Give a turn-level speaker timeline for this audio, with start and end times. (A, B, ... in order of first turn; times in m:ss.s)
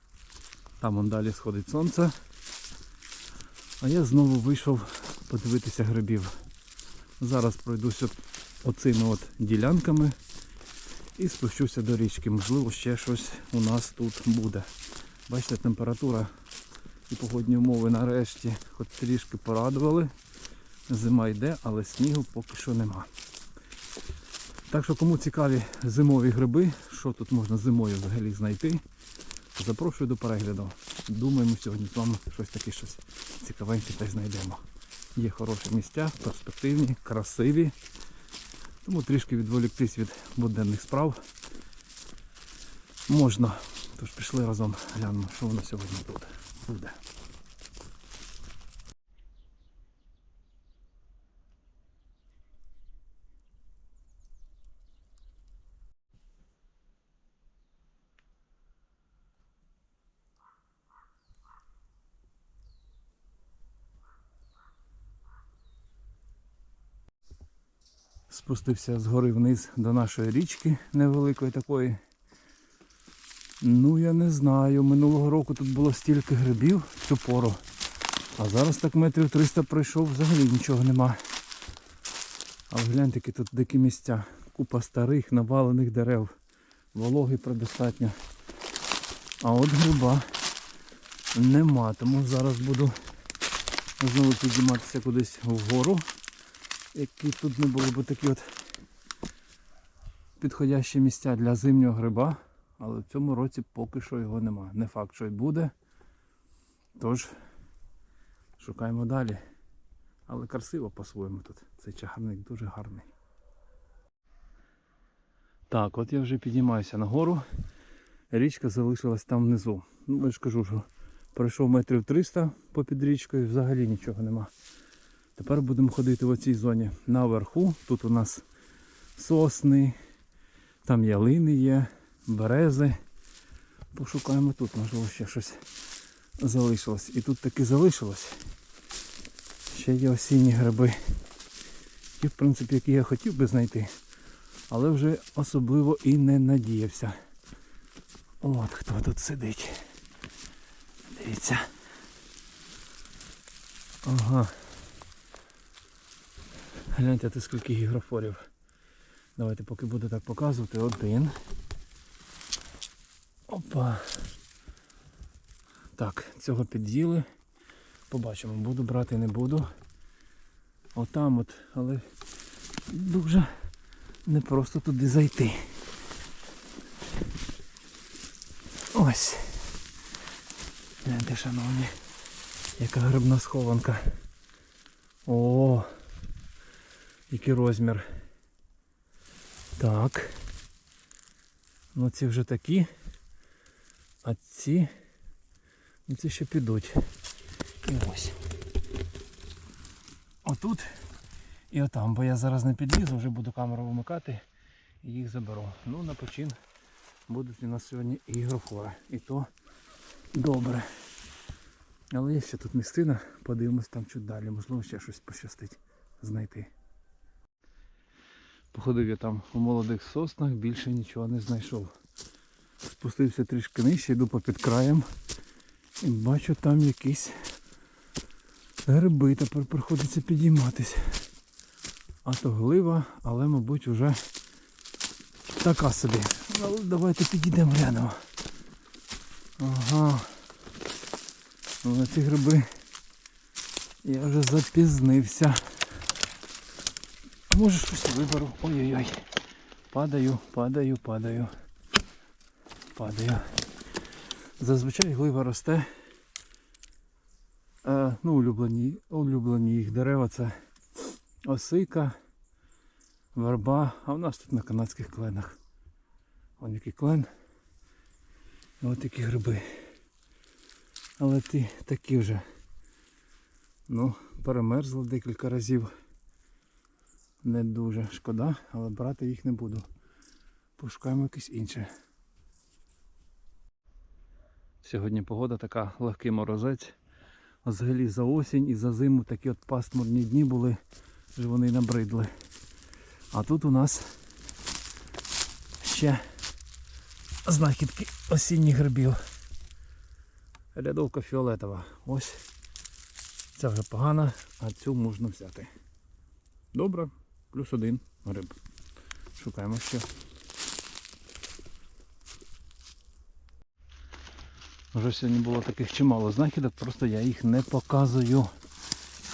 0:00.8-0:02.1 A
0:03.8-0:06.3 A
0:07.2-0:10.2 A
0:11.2-0:14.7 A
0:15.3-0:16.3 A
0:17.1-0:20.1 A
0:20.9-0:23.1 A
0:24.7-0:28.8 A
0:29.6-0:34.6 A
0:35.2-0:37.7 A
0:38.8-0:41.2 A
0:43.1-0:47.0 A
1:08.3-1:12.0 A
1:13.6-1:17.6 A
1:18.4-1:21.2 A
1:22.7-1:26.3 A
1:26.9-1:28.2 A
1:29.4-1:30.3 A
1:31.3-1:32.9 A
1:34.0-1:36.0 A
1:36.9-1:38.4 A
1:40.4-1:45.7 A
1:47.0-1:47.3 A
1:48.6-1:49.4 A
1:50.3-1:53.1 A
1:55.7-1:57.4 A
1:58.3-2:04.5 A
2:05.4-2:08.4 A
2:09.2-2:10.0 A
2:10.8-2:13.0 A
2:13.9-2:15.6 A
2:16.4-2:18.4 A
2:19.7-2:21.0 A
2:22.2-2:23.9 A
2:24.7-2:27.2 A
2:28.4-2:29.8 A
2:31.1-2:31.7 A
2:34.0-2:34.5 A
2:36.9-2:38.5 A
2:39.4-2:41.3 A
2:43.5-2:44.3 A
2:46.0-2:47.2 A
2:48.1-2:49.7 A
2:51.0-2:52.0 A
2:52.9-2:53.5 A
2:54.2-2:55.7 A
2:58.9-2:59.7 A
3:01.0-3:01.9 A
3:02.8-3:04.2 A
3:05.2-3:05.9 A
3:07.3-3:08.1 A
3:09.8-3:10.4 A
3:12.0-3:12.9 A
3:14.2-3:14.9 A
3:16.1-3:17.0 A
3:17.8-3:18.4 A
3:20.4-3:20.9 A
3:21.7-3:24.4 A
3:25.0-3:26.6 A
3:27.3-3:29.5 A
3:30.3-3:30.9 A
3:32.1-3:36.7 A
3:38.7-3:41.9 A
3:42.8-3:45.1 A
3:46.0-3:47.4 A
3:48.9-3:51.2 A
3:52.2-3:54.2 A
3:55.5-3:58.2 A
3:59.6-4:00.4 A
4:01.8-4:02.7 A
4:04.0-4:05.8 A
4:07.5-4:09.2 A
4:09.9-4:11.5 A
4:12.9-4:13.5 A
4:14.6-4:15.9 A
4:17.8-4:20.6 A
4:21.4-4:22.1 A
4:23.3-4:25.6 A
4:26.6-4:27.3 A
4:28.8-4:29.9 A
4:31.2-4:32.4 A
4:33.9-4:35.9 A
4:37.4-4:39.9 A
4:40.8-4:41.9 A
4:44.8-4:46.9 A
4:47.6-4:50.8 A
4:51.4-4:52.3 A
4:53.3-4:54.1 A
4:55.8-4:56.3 A
4:57.4-4:59.2 A
5:00.7-5:02.4 A
5:03.6-5:05.7 A
5:06.7-5:08.6 A
5:09.4-5:10.1 A
5:14.9-5:18.5 A